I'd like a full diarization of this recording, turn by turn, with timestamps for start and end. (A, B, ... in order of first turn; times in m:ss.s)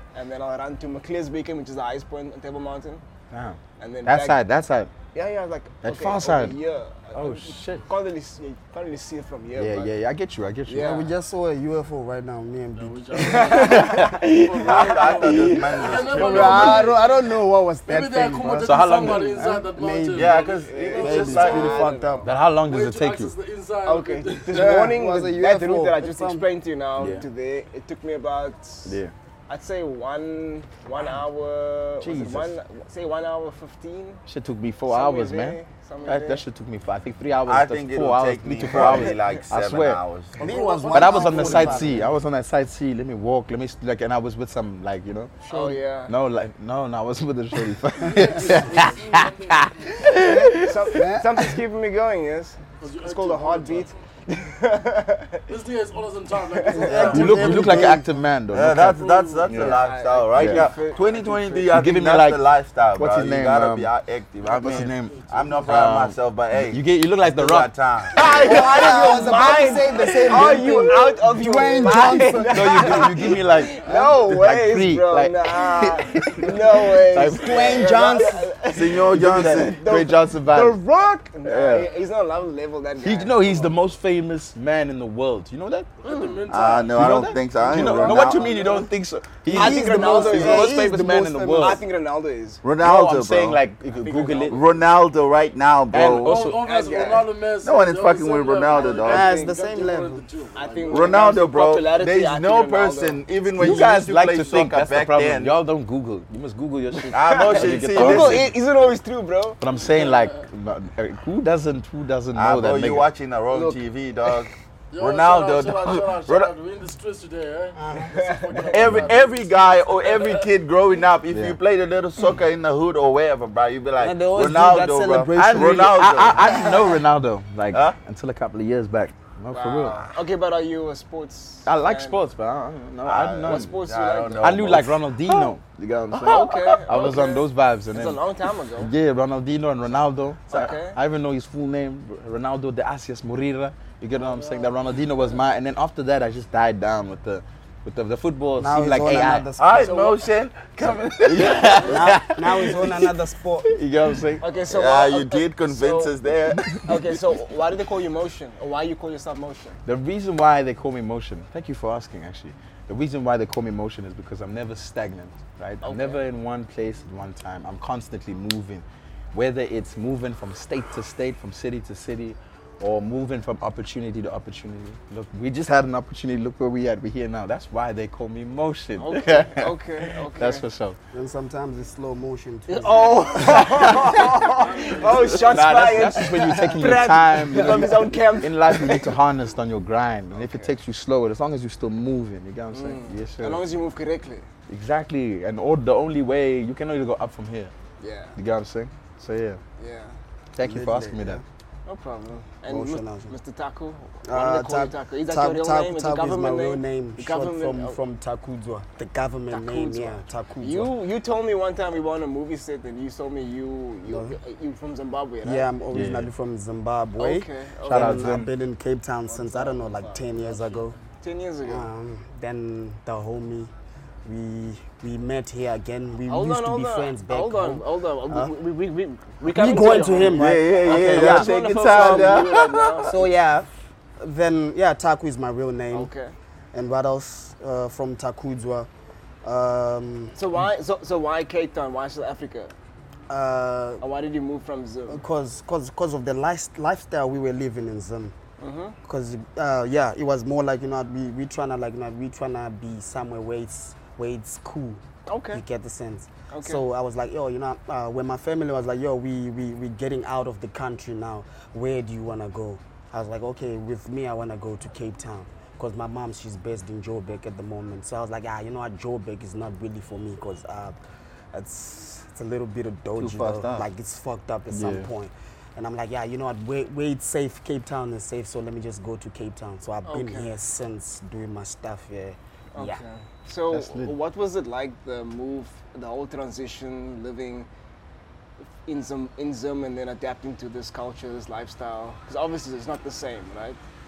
0:00.1-0:03.0 A
0:03.3-0:04.9 B
0:03.8-0:04.4 A
0:05.1-0:09.9 A
0:05.8-0:06.6 B
0:07.1-0:07.8 B
0:09.5-0:10.9 B
0:10.7-0:11.1 A
0:10.8-0:14.0 C
0:12.8-0:17.3 D
0:13.2-0:16.0 A
0:13.7-0:14.3 B
0:14.5-0:17.0 E
0:16.0-0:20.4 C
0:17.9-0:20.6 D
0:18.6-0:19.4 B
0:20.1-0:21.9 E
0:20.4-0:22.3 A
0:21.0-0:22.3 C
0:22.2-0:23.3 B
0:22.6-0:24.8 D
0:23.8-0:34.2 A
0:24.5-0:26.5 C
0:27.0-0:27.2 B
0:28.8-0:29.1 B
0:32.0-0:32.5 B
0:34.2-0:40.0 B
0:34.9-0:36.4 A
0:37.4-0:40.4 E
0:38.7-0:39.4 A
0:40.4-0:42.1 C
0:40.4-0:42.0 D
0:40.9-0:45.4 B
0:45.4-0:46.1 A
0:45.5-0:45.8 C
0:46.1-0:50.8 B
0:48.0-0:50.2 D
0:50.2-0:55.5 A
0:50.9-0:51.4 C
0:52.8-0:54.1 D
0:55.5-0:57.9 D
0:56.4-0:57.4 A
0:56.7-0:58.1 C
0:57.1-0:59.8 B
0:58.5-1:09.0 E
0:58.9-0:59.6 D
0:59.6-1:01.8 A
1:00.3-1:00.6 B
1:01.7-1:03.9 B
1:04.4-1:08.6 B
1:04.4-1:05.7 D
1:08.1-1:23.7 A
1:08.4-1:13.2 C
1:10.3-1:10.8 B
1:12.0-1:18.0 B
1:13.7-1:14.1 C
1:17.3-1:18.4 C
1:18.7-1:19.8 E
1:19.0-1:20.8 B
1:21.4-1:21.9 B
1:23.0-1:25.9 B
1:26.0-1:27.1 D
1:26.0-1:26.5 A
1:26.5-1:28.8 E
1:26.9-1:31.8 B
1:27.8-1:28.6 D
1:29.5-1:31.8 C
1:29.5-1:30.8 A
1:31.5-1:32.6 A
1:32.6-1:33.6 E
1:32.8-1:34.6 B
1:33.9-1:34.8 A
1:34.5-1:36.4 E
1:35.9-1:36.6 B
1:36.0-1:41.3 D
1:36.4-1:37.2 A
1:37.6-1:39.3 E
1:38.7-1:39.6 A
1:39.0-1:40.2 C
1:40.6-1:43.2 A
1:40.9-1:45.6 E
1:43.6-1:48.5 B
1:47.0-1:49.6 A
1:47.1-1:48.5 E
1:49.6-1:53.1 B
1:49.7-1:50.4 D
1:52.3-1:56.5 E
1:53.5-1:53.8 A
1:54.9-2:00.5 D
1:57.8-1:58.1 C
1:58.0-1:58.8 A
1:58.6-2:06.7 E
2:01.3-2:01.6 B
2:04.0-2:06.8 C
2:05.4-2:10.0 B
2:06.4-2:06.8 A
2:07.7-2:08.0 E
2:09.5-2:12.2 A
2:11.6-2:13.7 B
2:13.0-2:15.4 E
2:13.4-2:14.7 A
2:14.4-2:18.2 B
2:16.1-2:16.8 E
2:16.2-2:18.9 A
2:18.8-2:29.5 B
2:20.5-2:21.0 A
2:24.2-2:24.7 A
2:28.6-2:29.9 C
2:29.6-2:31.8 E
2:29.8-2:30.2 A
2:30.8-2:32.1 A
2:30.8-2:33.0 B
2:31.9-2:33.7 C
2:33.6-2:34.4 B
2:34.4-2:36.1 A
2:34.7-2:37.2 E
2:36.8-2:39.8 A
2:39.8-3:01.0 B
2:45.8-2:46.2 A
2:59.0-3:00.6 A
3:01.1-3:04.3 C
3:02.7-3:09.1 A
3:02.8-3:05.7 D
3:03.4-3:04.3 B
3:05.1-3:13.6 B
3:06.4-3:06.8 C
3:10.3-3:10.7 A
3:12.7-3:14.5 A
3:14.7-3:17.7 B
3:18.0-3:18.4 A
3:18.4-3:19.6 B
3:19.8-3:20.2 A
3:20.5-3:21.4 B
3:20.6-3:21.4 C
3:21.8-3:28.0 A
3:22.6-3:23.3 C
3:24.2-3:30.9 C
3:29.5-3:35.7 A
3:34.1-3:34.3 C
3:35.4-3:40.9 C
3:35.9-3:36.3 B
3:37.2-3:38.3 A
3:37.8-3:38.5 B
3:39.4-3:40.9 D
3:41.2-3:41.9 A
3:41.6-3:43.7 C
3:44.2-3:48.5 C
3:46.2-3:53.2 A
3:49.5-3:52.4 C
3:50.3-3:53.1 E
3:50.8-3:51.2 B
3:53.1-3:53.7 C
3:54.2-3:56.1 C
3:55.9-3:56.3 A
3:56.7-3:58.9 C
3:59.4-4:00.3 C
4:00.4-4:02.7 A
4:03.3-4:04.0 C
4:04.0-4:05.2 A
4:05.1-4:08.3 C
4:08.6-4:09.0 A
4:09.0-4:15.0 C
4:15.3-4:15.6 A
4:15.5-4:31.0 C
4:16.5-4:16.8 A
4:31.5-4:43.0 C
4:33.2-4:33.9 E
4:34.7-4:35.1 B
4:40.0-4:40.5 A
4:42.7-4:47.7 A
4:43.7-4:44.1 B
4:48.8-4:53.8 A